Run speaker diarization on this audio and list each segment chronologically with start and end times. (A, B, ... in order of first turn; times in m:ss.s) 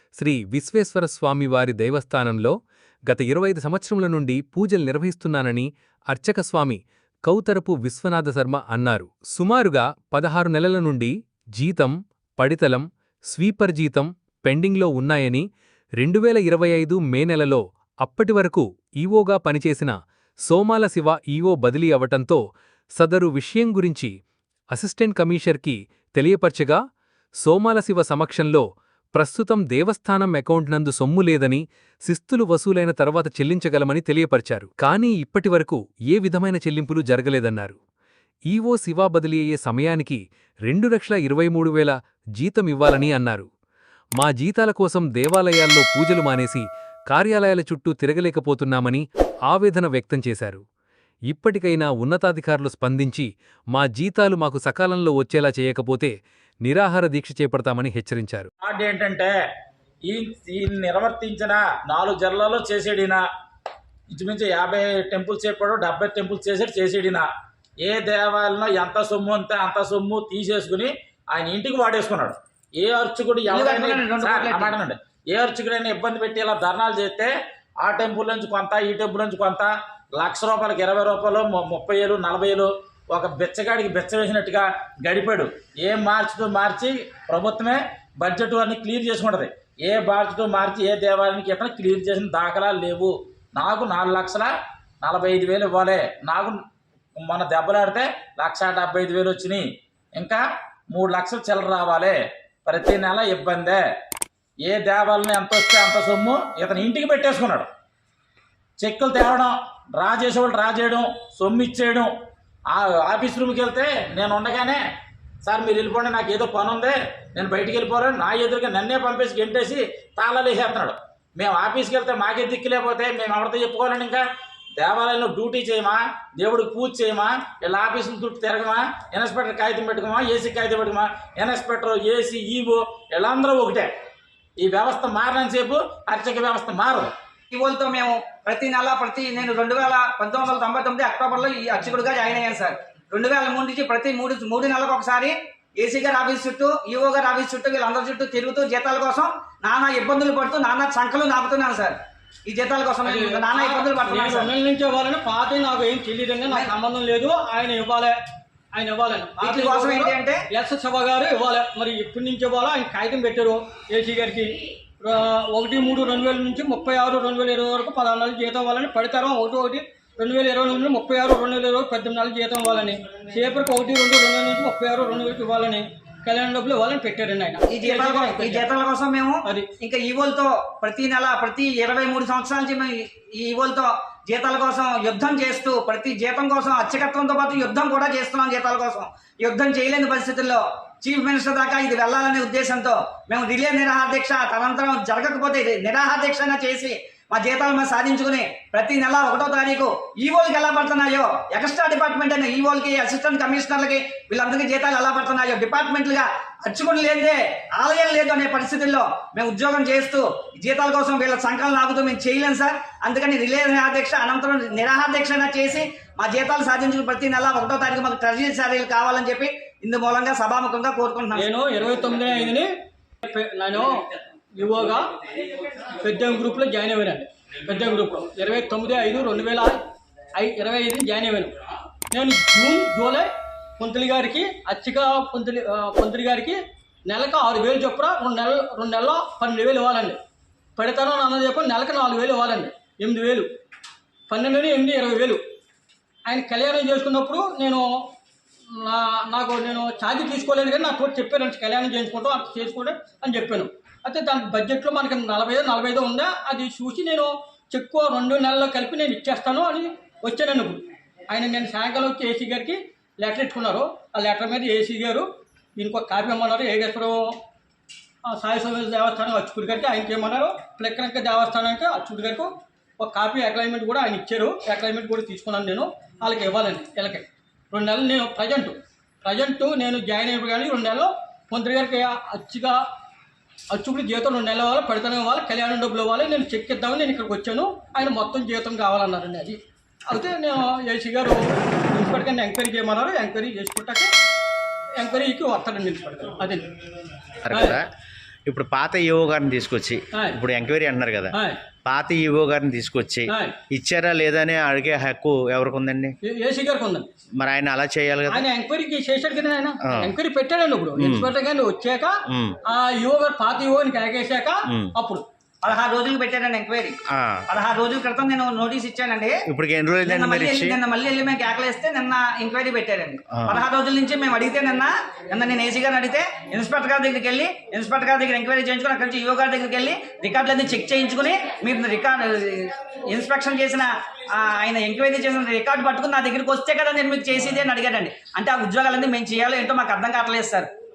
0:00.2-0:02.6 A
0:03.0-0:15.4 A
0:16.0-0:22.4 A
0:23.0-0:24.1 A
0:24.7-0:26.8 A
0:27.4-0:37.8 A
0:38.5-0:43.5 A
0:44.2-0:50.6 A
0:51.3-0:58.5 A
0:58.6-0:59.3 B
1:00.1-1:03.2 B
1:04.1-1:07.2 B
1:07.8-1:34.5 B
1:13.5-1:14.8 C
1:35.0-1:36.6 B
1:37.2-1:43.8 B
1:44.7-1:47.7 B
1:48.8-1:52.1 B
1:52.7-1:54.8 B
1:55.4-2:04.2 B
2:04.8-2:13.9 B
2:14.6-2:17.1 B
2:17.5-2:31.9 C
2:32.5-2:34.5 C
2:33.0-2:38.1 D
2:38.7-2:58.6 D
2:39.4-2:40.4 C
2:57.7-3:41.5 C
3:41.4-3:42.7 D
3:43.2-3:45.2 D
3:45.9-3:49.8 D
3:50.3-3:51.6 D
3:52.1-4:00.2 D
4:00.8-4:03.5 D
4:04.3-4:05.4 D
4:06.2-4:07.8 D
4:08.7-4:27.4 D
4:28.2-4:42.8 D
4:43.7-4:54.1 D
4:55.0-4:56.7 D
4:57.4-4:57.8 E
4:57.5-4:57.8 D
4:58.4-5:01.3 E
5:00.1-5:00.4 D
5:01.3-5:01.6 D
5:01.8-5:06.1 E
5:03.2-5:03.6 D
5:06.2-5:07.1 D
5:07.4-5:08.4 E
5:08.3-5:15.2 D
5:09.9-5:10.1 E
5:11.0-5:11.3 E
5:12.3-5:12.5 E
5:15.6-5:17.0 C
5:17.1-5:17.4 E
5:17.5-5:19.4 C
5:19.5-5:20.8 E
5:20.1-5:40.7 C